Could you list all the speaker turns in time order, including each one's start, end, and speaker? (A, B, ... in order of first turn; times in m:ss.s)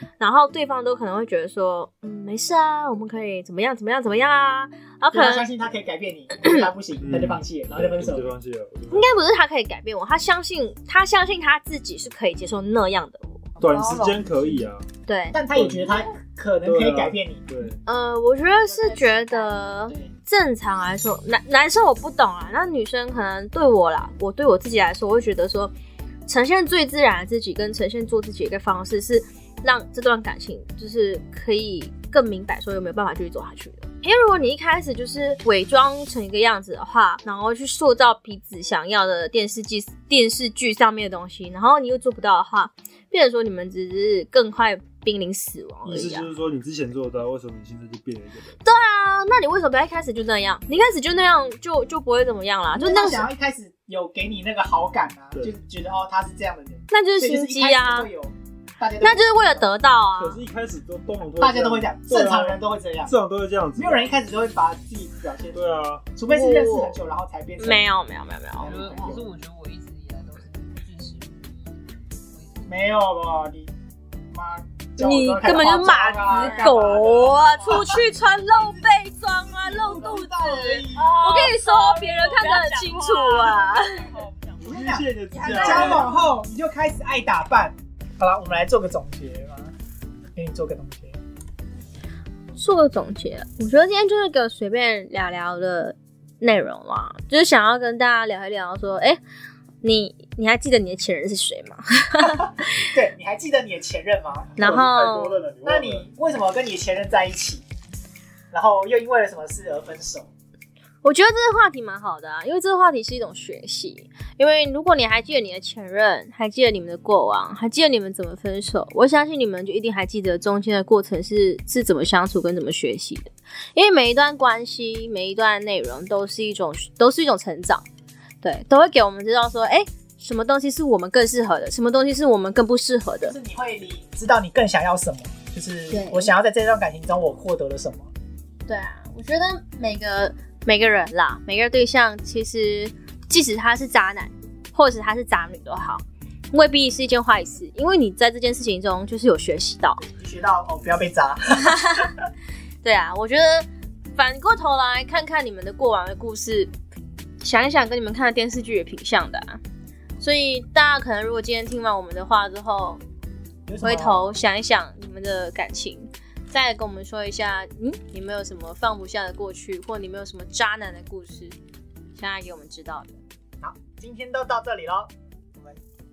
0:00.2-0:05.5 A
0:05.1-0:08.3 B
0:07.0-0:09.1 C
0:08.9-0:13.5 A
0:13.6-0:14.6 B
0:13.6-0:14.8 C
0:15.0-0:15.4 A
0:15.3-0:17.4 B
0:15.5-0:16.1 C
0:16.6-0:17.8 C
0:17.8-0:25.7 A
0:18.6-0:20.1 B
0:26.3-0:46.3 A
0:45.8-0:48.6 C
0:48.6-0:53.2 A
0:52.7-0:59.7 B
0:56.9-0:58.1 A
0:59.0-1:00.4 A
1:00.1-1:04.1 C
1:01.4-1:03.1 B
1:03.8-1:05.6 B
1:05.5-1:06.0 C
1:06.1-1:07.9 B
1:06.3-1:06.9 A
1:07.6-1:08.8 A
1:08.6-1:09.3 B
1:08.7-1:11.2 D
1:12.6-1:13.7 B
1:14.3-1:18.0 B
1:15.0-1:24.1 A
1:16.2-1:17.3 D
1:19.5-1:21.5 B
1:20.9-1:24.6 D
1:24.6-1:29.7 B
1:24.6-1:26.1 C
1:25.4-1:26.0 A
1:25.7-1:25.9 D
1:30.4-1:31.2 B
1:32.5-1:39.2 A
1:39.8-1:42.9 A
1:42.8-1:44.6 B
1:44.6-1:45.4 A
1:44.6-1:46.0 C
1:45.6-1:47.6 B
1:48.5-1:50.3 B
1:51.0-2:07.8 A
2:08.4-2:13.3 A
2:13.2-2:18.1 B
2:15.9-2:16.3 A
2:18.7-2:30.0 A
2:30.0-2:31.9 B
2:31.6-2:32.1 A
2:32.8-2:36.7 A
2:37.4-2:39.6 A
2:40.2-2:43.0 A
2:43.7-2:44.2 B
2:43.8-2:51.5 A
2:52.2-2:53.2 A
2:53.6-2:55.8 B